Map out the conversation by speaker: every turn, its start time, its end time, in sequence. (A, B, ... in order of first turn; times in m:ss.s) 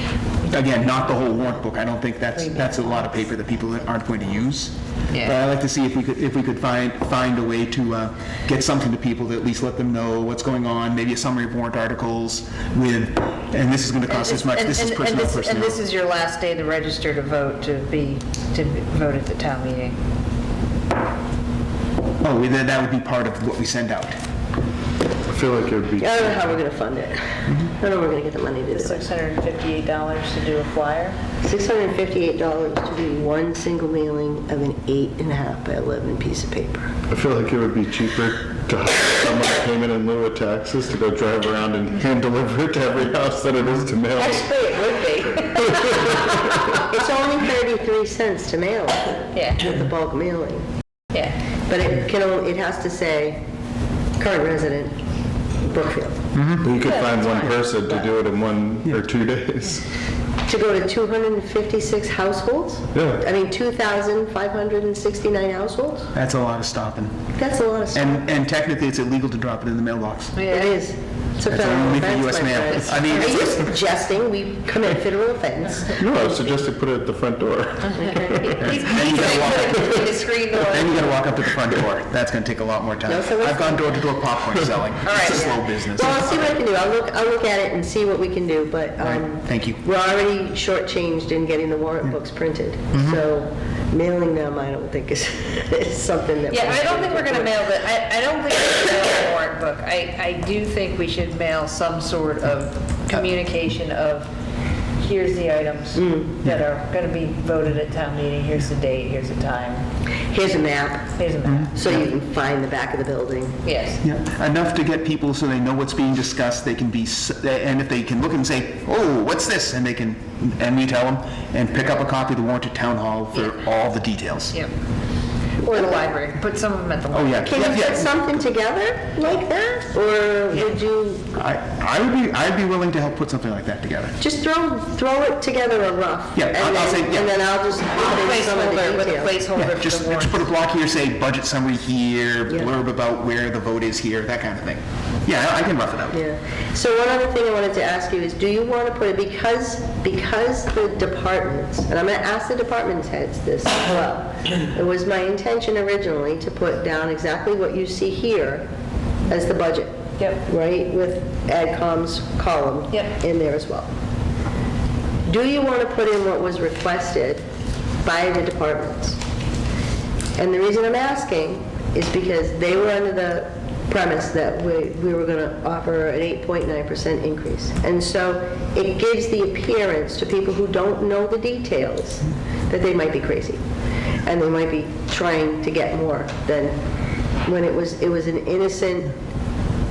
0:00.4-0:15.8 A
0:05.1-0:05.4 B
0:14.1-0:20.0 B
0:22.2-0:24.2 A
0:25.3-0:26.6 C
0:26.0-0:29.0 D
0:28.7-0:31.2 B
0:31.4-0:36.9 D
0:37.1-0:44.6 C
0:44.2-0:46.0 B
0:45.0-0:46.1 D
0:45.4-0:46.5 C
0:46.7-0:50.6 D
0:49.3-0:49.7 B
0:51.1-0:51.4 B
0:51.7-0:53.4 D
0:54.2-0:54.9 D
0:55.6-0:56.2 D
0:56.3-0:57.3 A
0:56.6-0:59.8 C
0:56.8-0:57.2 B
1:00.5-1:06.1 D
1:02.9-1:03.2 C
1:06.1-1:07.3 A
1:07.4-1:08.3 D
1:07.9-1:10.4 A
1:10.3-1:10.8 B
1:10.5-1:16.2 D
1:11.5-1:13.6 A
1:12.7-1:13.4 B
1:16.0-1:18.8 C
1:18.0-1:18.4 D
1:18.3-1:21.1 B
1:18.6-1:26.6 A
1:23.1-1:24.0 D
1:25.0-1:25.4 B
1:25.3-1:37.6 D
1:29.0-1:29.8 A
1:32.9-1:33.2 A
1:36.5-1:44.3 B
1:45.0-1:49.8 B
1:46.0-1:46.3 D
1:50.2-1:51.1 D
1:51.2-1:52.0 B
1:51.4-1:51.9 A
1:51.7-1:53.6 D
1:53.6-1:54.0 B
1:54.0-2:04.5 A
2:05.6-2:07.8 B
2:05.7-2:06.0 D
2:07.1-2:08.2 A
2:07.4-2:11.3 D
2:11.3-2:14.2 A
2:14.2-2:19.4 D
2:16.3-2:17.3 A
2:17.9-2:20.5 B
2:19.6-2:26.2 A
2:26.1-2:38.6 D
2:39.3-2:43.9 D
2:40.2-2:40.4 B
2:45.2-2:47.4 D
2:48.0-2:49.2 D
2:50.4-3:03.6 D
3:04.2-3:06.8 D
3:07.4-3:09.2 D